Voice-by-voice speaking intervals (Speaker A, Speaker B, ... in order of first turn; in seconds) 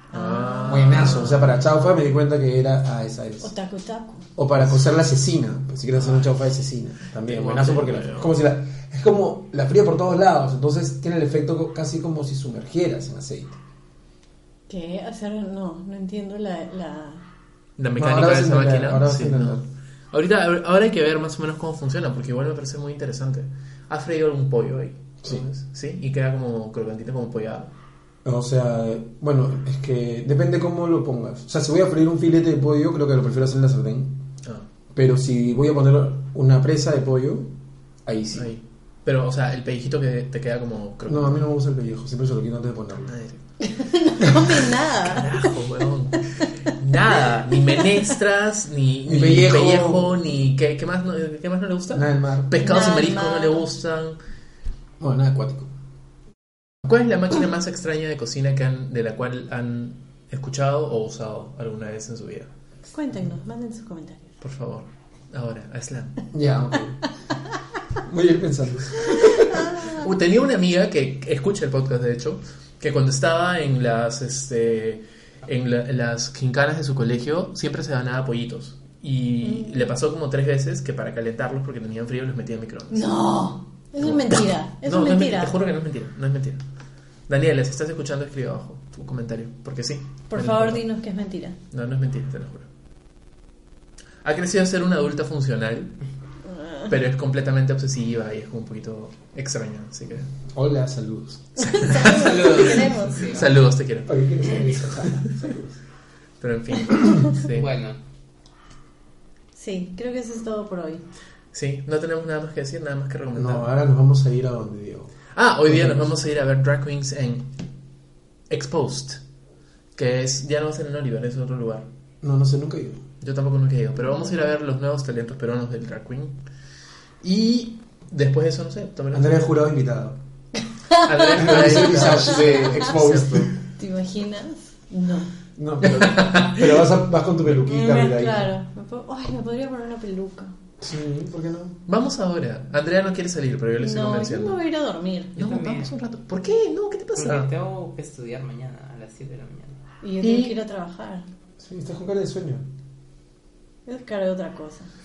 Speaker A: 0.1-1.2, 3.4-4.2, 14.7-17.2, 43.6-45.3, 52.6-53.7, 62.9-64.3, 69.5-69.8, 79.4-79.9, 82.9-85.6, 90.3-91.6, 96.5-96.9, 101.6-103.2, 109.5-111.0, 130.9-131.8, 133.8-135.3, 137.6-140.5, 143.8-145.4, 150.0-151.3, 153.9-154.9
Speaker B: 0.1-1.6, 6.0-6.3, 7.3-8.3, 17.8-19.6, 20.1-27.7, 38.3-41.4, 43.1-43.4, 45.0-54.2, 56.8-62.5, 64.4-66.2, 69.9-83.1, 84.0-86.6, 87.3-90.8, 91.7-92.7, 94.2-96.0, 96.9-100.3, 101.6-104.2, 106.4-107.7, 111.5-113.7, 115.3-117.5, 118.5-119.2, 119.9-121.9, 123.2-126.4, 127.2-129.4, 131.0-133.5, 136.0-136.8, 141.9-144.6, 145.3-147.5, 150.2-150.5
Speaker C: 0.7-3.5, 4.4-13.6, 18.0-19.6, 28.2-34.2, 34.9-37.5, 38.0-38.5, 41.1-43.1, 49.0-50.2, 51.9-52.6, 55.0-55.7, 66.3-67.0, 68.0-69.7, 100.5-101.5, 104.1-105.7, 113.3-115.1, 115.7-116.1, 122.2-123.0, 129.1-130.2, 131.3-133.5, 135.6-138.5, 140.8-141.8, 151.6-152.6
Speaker D: 102.1-103.4, 107.4-108.0, 145.4-145.9, 147.1-149.8